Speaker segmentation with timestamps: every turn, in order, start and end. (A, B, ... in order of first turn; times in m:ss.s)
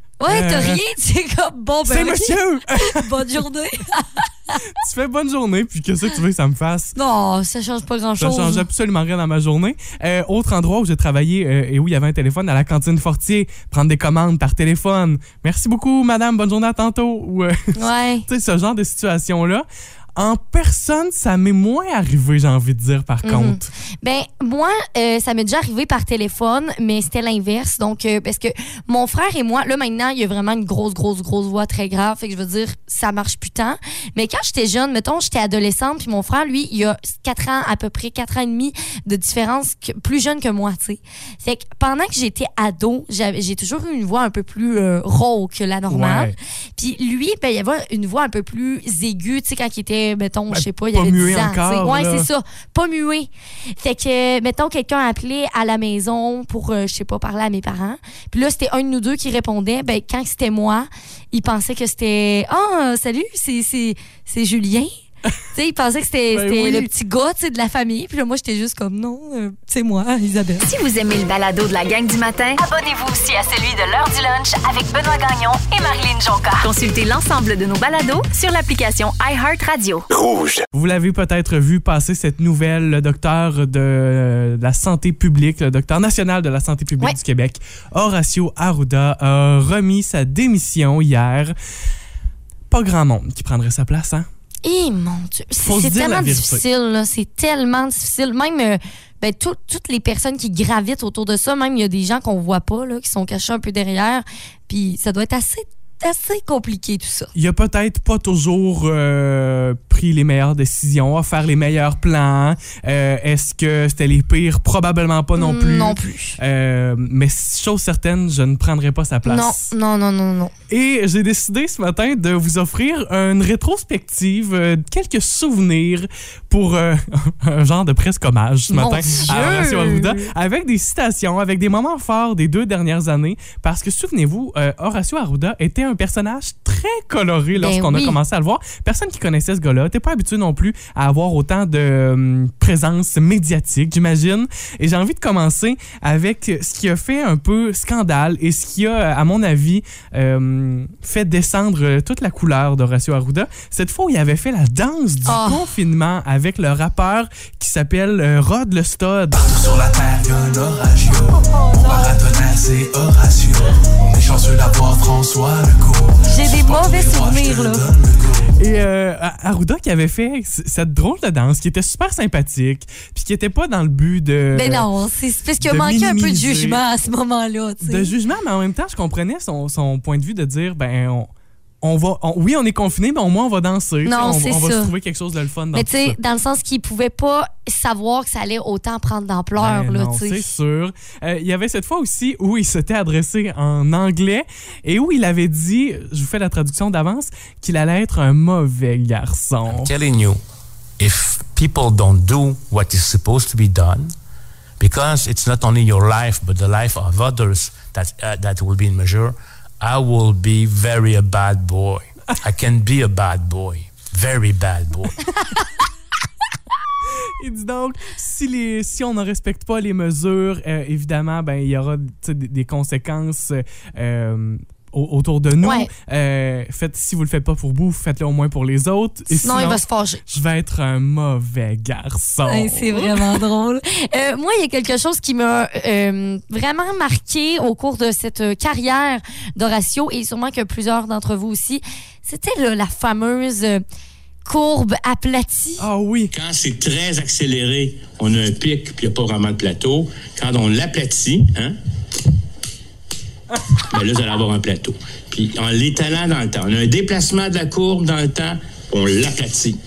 0:00.2-0:04.6 A
0:00.3-0:00.8 B
0:01.9-0:03.4 B
0:04.7-0:07.0 B
0:07.0-0:08.6 A
0:08.2-0:17.7 B
0:17.8-0:18.2 A
0:18.2-0:23.7 B
0:23.2-0:53.3 A
0:45.9-0:46.3 B
0:50.5-0:52.3 B
0:53.8-1:04.9 A
1:05.5-1:10.7 A
1:06.3-1:06.9 B
1:10.6-1:20.0 C
1:20.7-1:31.5 B
1:32.7-1:34.2 B
1:34.6-1:47.3 A
1:35.6-1:36.6 B
1:47.3-1:59.7 B
1:55.4-1:56.4 A
1:59.2-2:00.5 A
2:00.7-2:39.8 B
2:08.7-2:10.3 A
2:17.5-2:18.2 A
2:35.3-2:35.7 A
2:39.8-2:40.8 D
2:40.6-2:41.0 B
2:41.5-2:42.2 A
2:41.8-2:43.4 B
2:42.8-2:43.2 D
2:44.3-2:46.1 D
2:45.3-2:45.8 B
2:46.2-2:47.9 A
2:46.6-2:47.4 B
2:48.6-2:54.8 B
2:54.5-2:58.1 A
2:55.6-2:56.8 B
2:57.8-3:01.3 B
3:01.8-3:06.2 B
3:04.0-3:04.9 A
3:05.7-3:10.4 A
3:09.6-3:19.9 B
3:19.7-3:20.4 E
3:21.0-3:24.1 E
3:24.8-3:35.2 E
3:37.4-3:53.4 B
3:45.6-3:45.9 A
3:49.3-3:50.2 A
3:52.5-4:03.8 A
4:04.4-4:05.8 A
4:05.8-4:06.3 B
4:06.3-4:11.7 F
4:13.9-4:19.8 F